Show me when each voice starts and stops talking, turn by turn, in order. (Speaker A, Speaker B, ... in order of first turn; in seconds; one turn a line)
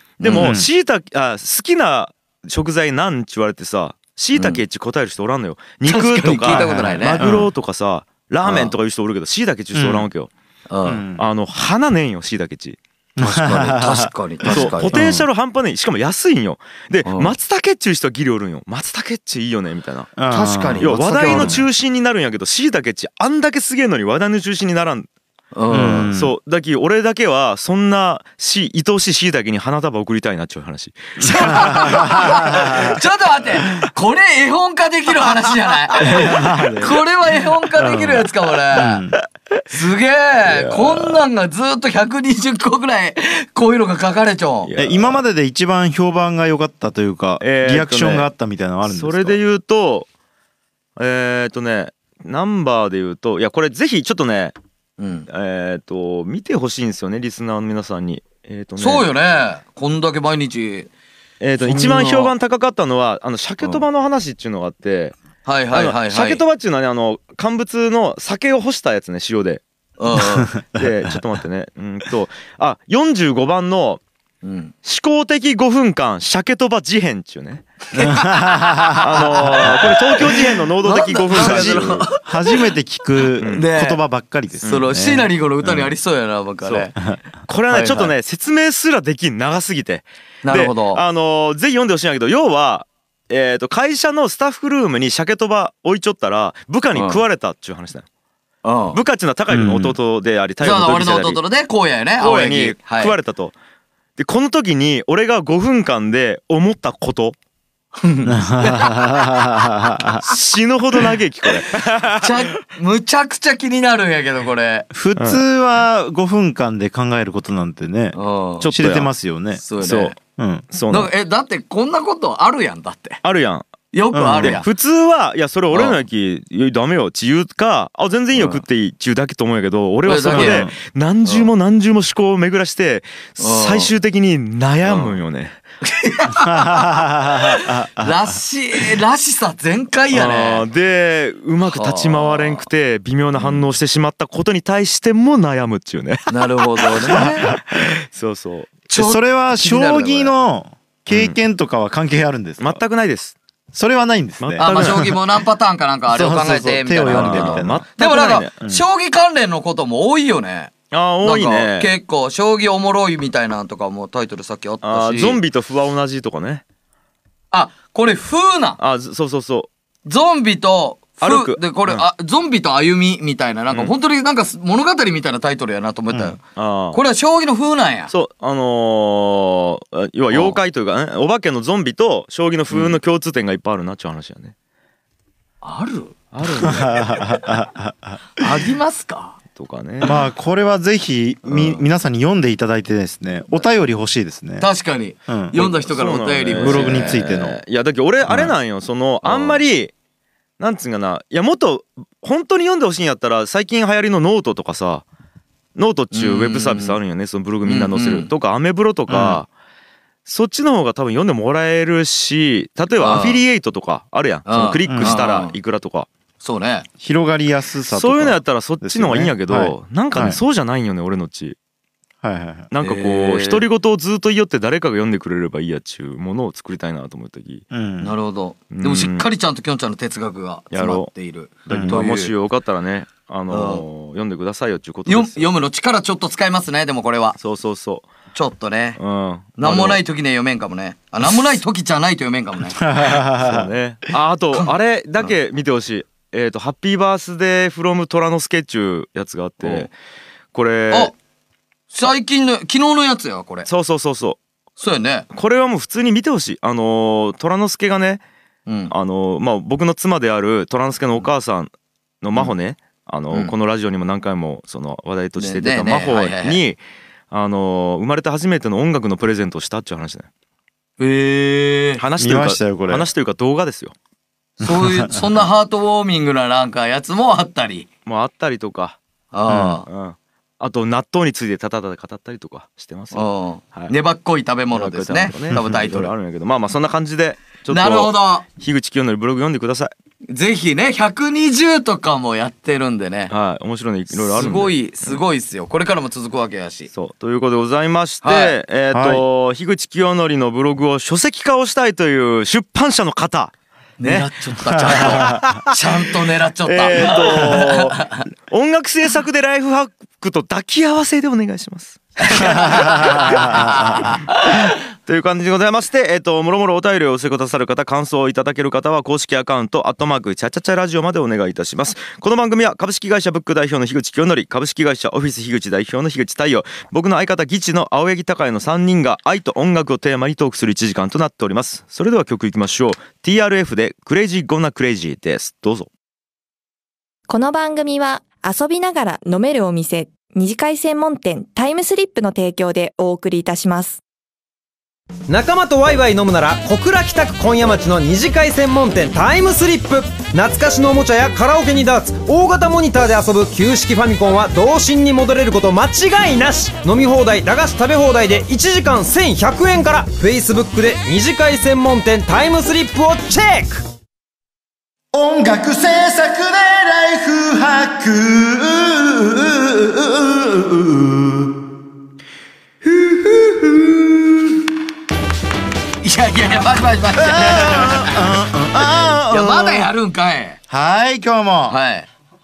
Speaker A: 0.2-0.6
Speaker B: 0.2-10.3
Speaker C: 0.4-0.7
Speaker A: 4.3-4.6
Speaker A: 5.8-7.2
Speaker C: 6.5-7.5
Speaker A: 8.4-8.7
Speaker C: 9.7-10.1
Speaker A: 10.7-11.0
Speaker C: 10.9-11.2
Speaker B: 11.2-12.8
Speaker C: 13.2-15.3
Speaker A: 13.2-15.0
Speaker B: 14.5-20.1
Speaker A: 17.1-17.3
Speaker C: 20.2-21.6
Speaker A: 20.3-21.6
Speaker B: 20.8-25.1
Speaker A: 25.6-26.1
Speaker C: 25.7-26.3
Speaker B: 26.1-32.3
Speaker A: 31.2-39.0
Speaker C: 31.5-33.0
Speaker C: 36.0-36.9
Speaker B: 36.5-36.9
Speaker C: 37.8-39.2
Speaker A: 39.7-44.7
Speaker B: 40.5-41.2
Speaker B: 44.6-45.2
Speaker C: 44.8-49.4
Speaker B: 47.4-48.3
Speaker B: 48.8-50.1
Speaker B: 51.0-54.5
Speaker A: 55.0-55.3
Speaker B: 55.3-59.1
Speaker A: 58.8-60.9
Speaker B: 61.4-65.2
Speaker A: 61.6-62.3
Speaker A: 65.5-66.4
Speaker B: 65.7-69.6
Speaker A: 70.0-70.5
Speaker B: 70.7-74.0
Speaker A: 74.4-74.7
Speaker B: 74.8-77.7
Speaker A: 77.9-82.6
Speaker C: 78.0-79.0
Speaker B: 79.0-82.1
Speaker C: 81.3-85.3
Speaker B: 83.4-83.7
Speaker A: 83.4-84.0
Speaker A: 84.6-87.0
Speaker B: 87.5-98.1
Speaker A: 87.7-88.1
Speaker A: 90.4-91.0
Speaker A: 96.9-97.2
Speaker A: 98.6-99.0
Speaker B: 98.9-101.4
Speaker C: 99.5-100.0
Speaker A: 100.6-103.1
Speaker B: 102.2-103.5
Speaker B: 104.2-107.4
Speaker A: 108.0-109.3
Speaker C: 108.3-110.2
Speaker B: 110.3-112.3
Speaker A: 112.2-114.9
Speaker C: 114.9-118.2
Speaker B: 115.2-115.4
Speaker A: 118.1-118.7
Speaker B: 118.6-119.1
Speaker C: 118.7-119.6
Speaker A: 119.6-120.2
Speaker B: 119.8-120.2
Speaker C: 120.4-120.7
Speaker B: 120.7-121.1
Speaker A: 120.9-123.2
Speaker B: 123.2-123.7
Speaker A: 123.9-124.7
Speaker C: 124.1-124.6
Speaker B: 124.4-135.6
Speaker A: 125.7-126.0
Speaker A: 128.3-128.6
Speaker A: 130.1-130.7
Speaker C: 130.3-130.7
Speaker A: 133.4-133.9
Speaker A: 134.8-135.2
Speaker A: 135.8-140.6
Speaker C: 136.4-138.4
Speaker B: 140.1-148.8
Speaker A: 141.7-142.7
Speaker A: 143.4-143.6
Speaker A: 146.3-147.5
Speaker A: 148.9-150.3
Speaker C: 148.9-152.8
Speaker B: 151.1-151.4
Speaker B: 152.6-153.4
Speaker C: 153.7-155.0
Speaker B: 154.4-155.2
Speaker A: 154.6-165.4
Speaker C: 156.1-157.9
Speaker B: 157.1-158.5
Speaker B: 160.9-161.9
Speaker B: 164.8-166.6
Speaker A: 167.5-168.8
Speaker B: 168.8-169.7
Speaker A: 170.1-176.4
Speaker B: 171.2-172.1
Speaker B: 176.5-177.0
Speaker A: 176.9-178.1
Speaker B: 178.1-184.5
Speaker A: 180.3-180.6
Speaker A: 182.7-183.0
Speaker A: 185.6-186.2
Speaker B: 186.3-187.1
Speaker C: 186.6-188.2
Speaker A: 188.4-189.4
Speaker B: 189.5-190.2
Speaker C: 190.0-194.7
Speaker A: 194.6-197.2
Speaker C: 195.3-195.6
Speaker B: 195.6-199.9
Speaker C: 196.6-197.6
Speaker C: 198.3-198.5
Speaker A: 199.2-199.6
Speaker B: 200.6-205.1
Speaker B: 205.8-209.5
Speaker A: 206.1-207.0
Speaker A: 207.7-208.3
Speaker C: 209.1-209.4
Speaker B: 210.3-216.1
Speaker A: 213.0-213.4
Speaker A: 214.5-215.5
Speaker C: 214.9-215.2
Speaker A: 216.4-216.9
Speaker C: 217.0-220.4
Speaker B: 217.9-221.6
Speaker C: 222.2-222.7
Speaker B: 222.7-227.6
Speaker A: 222.8-223.7
Speaker C: 227.7-228.1
Speaker A: 228.0-232.3
Speaker B: 228.7-229.3
Speaker B: 230.7-231.1
Speaker C: 231.7-232.0
Speaker B: 231.7-235.5
Speaker A: 233.5-233.8
Speaker A: 235.1-237.4
Speaker B: 237.4-238.1
Speaker A: 238.3-239.0
Speaker B: 239.0-240.0
Speaker A: 239.6-243.1
Speaker C: 242.8-243.7
Speaker B: 243.4-249.9
Speaker A: 244.5-245.3
Speaker A: 249.6-249.9
Speaker B: 250.5-251.1
Speaker A: 251.9-253.7
Speaker B: 253.7-254.4
Speaker A: 254.8-255.3
Speaker B: 255.3-258.2
Speaker A: 258.7-258.9
Speaker B: 258.9-261.7
Speaker B: 262.2-266.8
Speaker A: 265.4-266.6
Speaker B: 267.3-270.3
Speaker A: 271.0-272.0
Speaker B: 272.0-273.9
Speaker C: 272.2-273.1
Speaker A: 274.6-277.9
Speaker C: 274.6-275.1
Speaker B: 278.1-279.0
Speaker A: 279.3-279.9
Speaker C: 279.5-279.8
Speaker B: 279.9-283.9
Speaker A: 283.1-286.1
Speaker B: 284.7-289.9
Speaker A: 287.7-288.4
Speaker A: 290.3-293.3
Speaker B: 293.3-295.2
Speaker A: 294.1-296.9
Speaker B: 296.9-304.3
Speaker A: 298.2-298.6
Speaker C: 298.9-299.2
Speaker A: 304.0-308.2
Speaker C: 304.8-305.5
Speaker B: 304.9-305.7
Speaker B: 306.7-335.9
Speaker A: 312.2-314.6
Speaker C: 312.4-314.1
Speaker D: 337.3-344.0
Speaker E: 345.3-363.8
Speaker C: 365.1-371.5
Speaker A: 373.0-373.7
Speaker A: 376.0-378.2
Speaker C: 377.2-379.9
Speaker A: 379.3-380.6
Speaker C: 380.7-381.8
Speaker A: 381.7-382.1